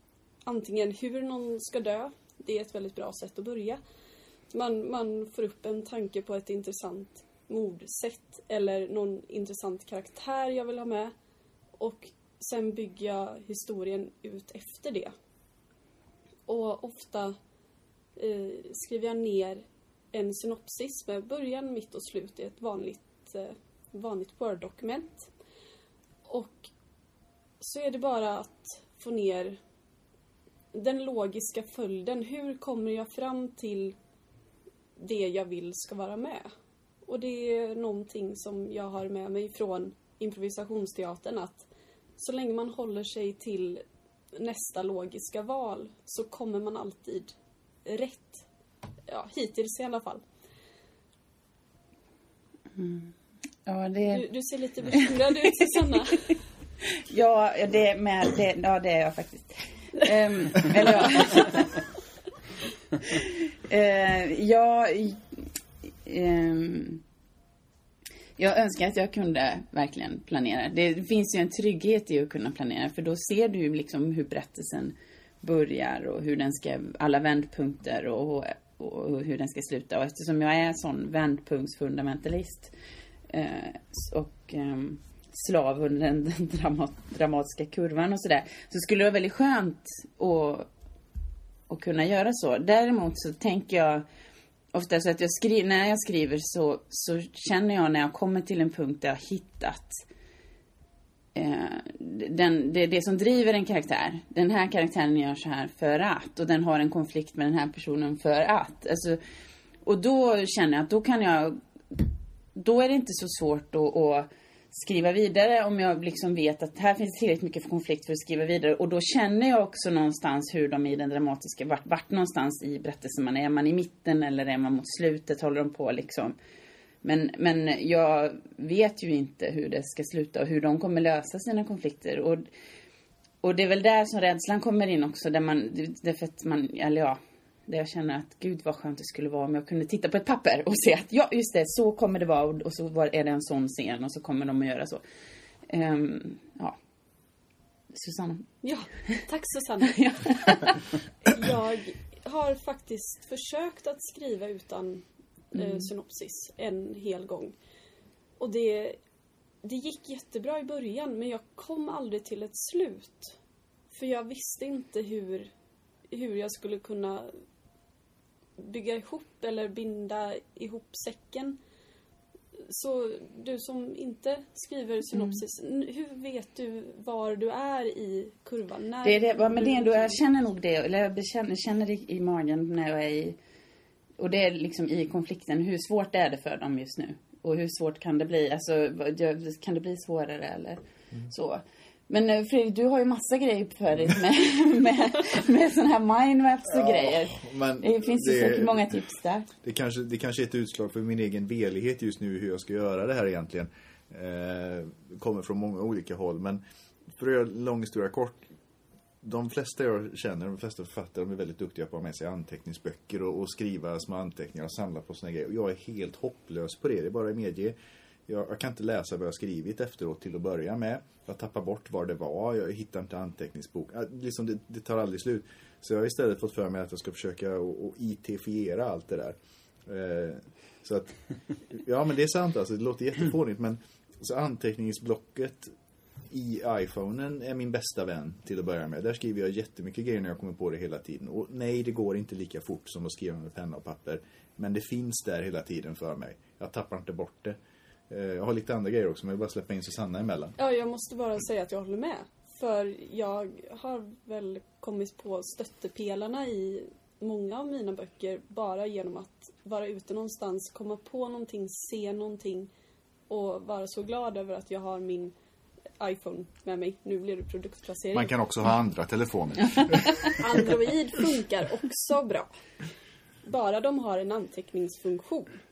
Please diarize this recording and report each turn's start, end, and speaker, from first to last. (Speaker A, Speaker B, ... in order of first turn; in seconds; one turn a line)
Speaker A: 0.5-3.8
Speaker A: 4.5-11.1
Speaker A: 11.8-15.1
Speaker A: 16.5-17.4
Speaker A: 18.2-25.3
Speaker A: 26.2-26.7
Speaker A: 27.6-29.6
Speaker A: 30.7-34.0
Speaker A: 35.0-36.5
Speaker A: 37.0-41.6
Speaker A: 42.2-43.8
Speaker A: 44.4-47.3
Speaker A: 47.9-48.5
Speaker A: 49.1-50.2
Speaker B: 52.8-53.1
Speaker B: 53.7-54.3
Speaker A: 54.1-56.3
Speaker B: 54.9-56.2
Speaker B: 56.9-61.9
Speaker B: 63.0-65.5
Speaker B: 66.0-67.0
Speaker B: 68.4-82.7
Speaker B: 83.3-90.7
Speaker B: 91.7-94.0
Speaker B: 94.7-100.0
Speaker B: 101.3-109.2
Speaker B: 109.8-126.4
Speaker B: 127.0-132.5
Speaker B: 133.4-145.0
Speaker B: 145.7-146.8
Speaker B: 147.9-148.5
Speaker A: 148.6-150.6
Speaker B: 149.9-150.8
Speaker A: 151.3-157.6
Speaker B: 155.5-155.9
Speaker A: 158.4-159.0
Speaker A: 159.6-163.4
Speaker A: 163.9-165.5
Speaker A: 166.1-167.3
Speaker A: 168.6-171.6
Speaker A: 172.6-180.2
Speaker B: 179.0-183.4
Speaker B: 184.2-199.5
Speaker C: 196.7-199.0
Speaker C: 199.6-208.5
Speaker C: 209.2-217.8
Speaker C: 218.3-235.8
Speaker C: 236.3-247.6
Speaker C: 248.1-250.6
Speaker A: 250.6-262.7
Speaker A: 263.3-265.3
Speaker A: 266.0-268.3
Speaker C: 268.1-270.7
Speaker A: 270.2-272.5
Speaker A: 273.4-275.6